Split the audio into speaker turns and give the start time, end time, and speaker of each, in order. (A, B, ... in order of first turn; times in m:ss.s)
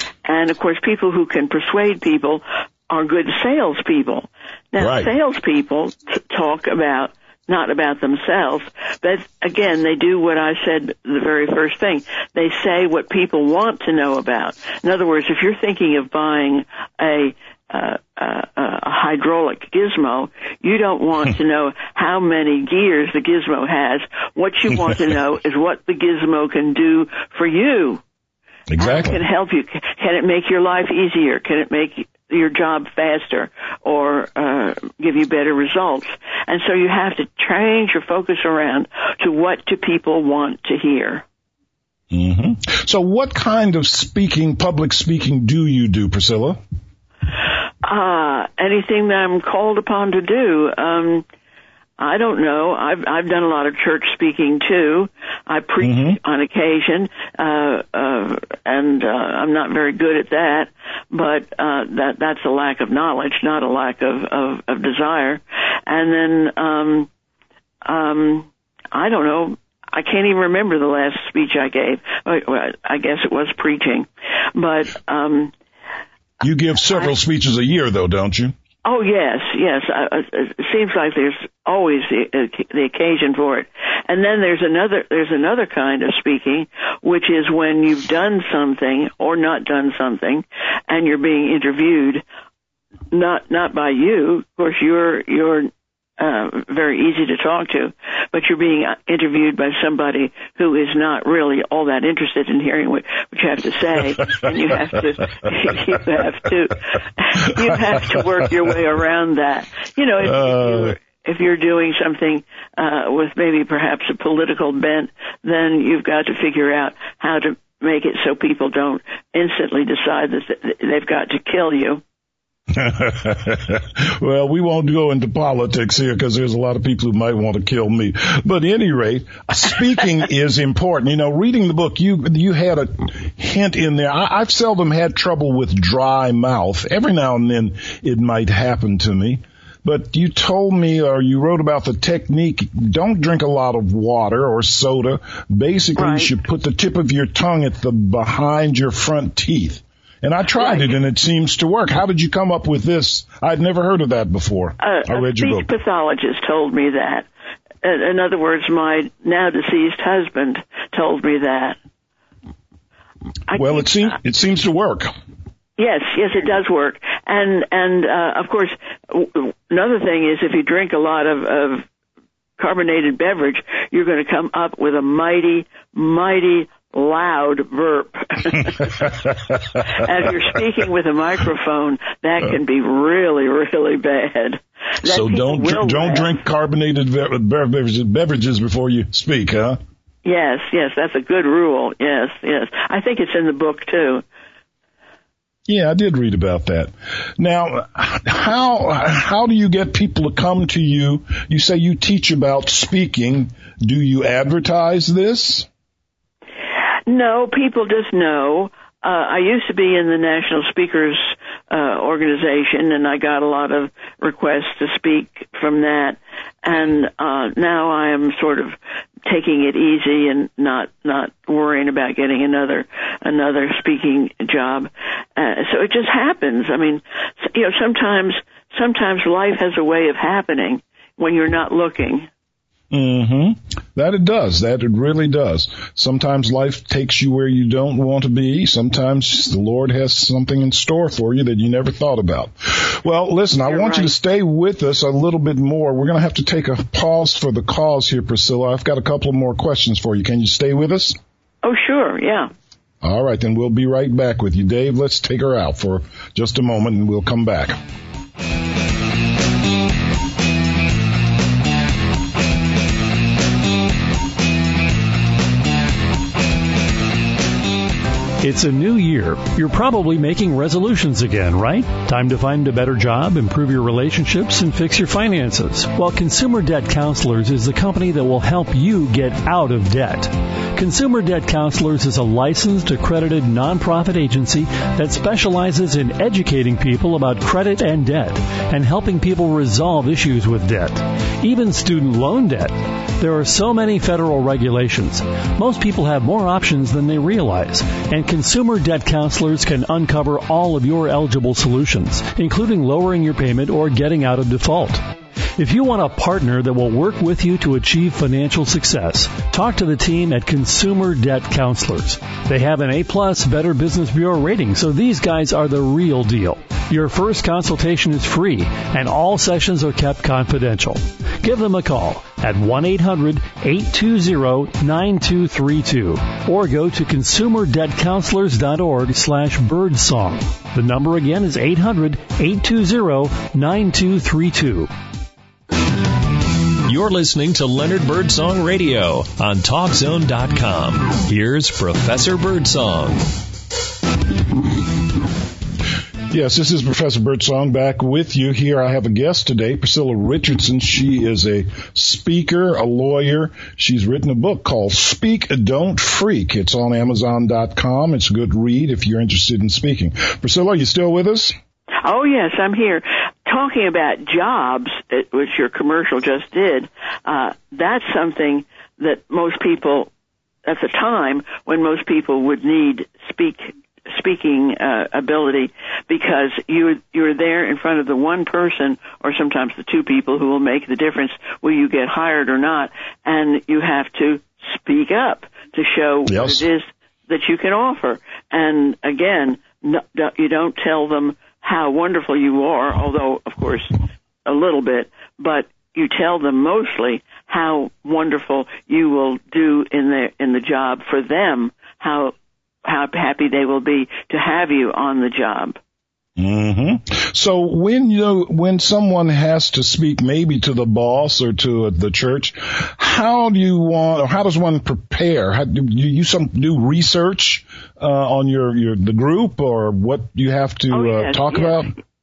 0:00.2-0:28.0 A
0:04.8-0:05.1 B
0:28.7-0:29.2 B
0:28.8-0:41.2 A
0:42.1-0:46.6 B
0:47.8-0:51.2 A
0:52.0-1:07.1 A
0:55.8-0:56.2 B
1:07.8-1:15.5 A
1:16.4-1:18.5 B
1:18.8-1:32.2 A
1:33.1-2:02.0 A
1:47.4-1:48.2 B
1:50.2-1:51.0 B
2:02.7-2:35.7 B
2:26.0-2:26.3 A
2:30.6-2:30.9 A
2:34.8-2:37.3 A
2:37.8-2:41.8 A
2:43.5-2:44.2 A
2:43.5-2:45.1 B
2:45.8-2:51.8 A
2:52.6-3:06.3 A
2:58.8-2:59.8 B
3:05.0-3:09.8 B
3:10.2-3:14.2 A
3:15.7-3:25.7 B
3:27.1-3:52.3 A
3:52.9-4:11.2 B
4:03.6-4:04.1 A
4:11.6-4:12.5 A
4:13.0-4:17.8 B
4:28.4-5:05.0 C
5:05.6-5:34.9 C
5:36.8-5:43.3 D
5:46.3-6:01.5 B
6:02.0-6:10.1 A
6:10.6-6:45.8 A
6:26.2-6:26.6 B
6:46.4-7:01.9 B
7:00.9-7:01.8 A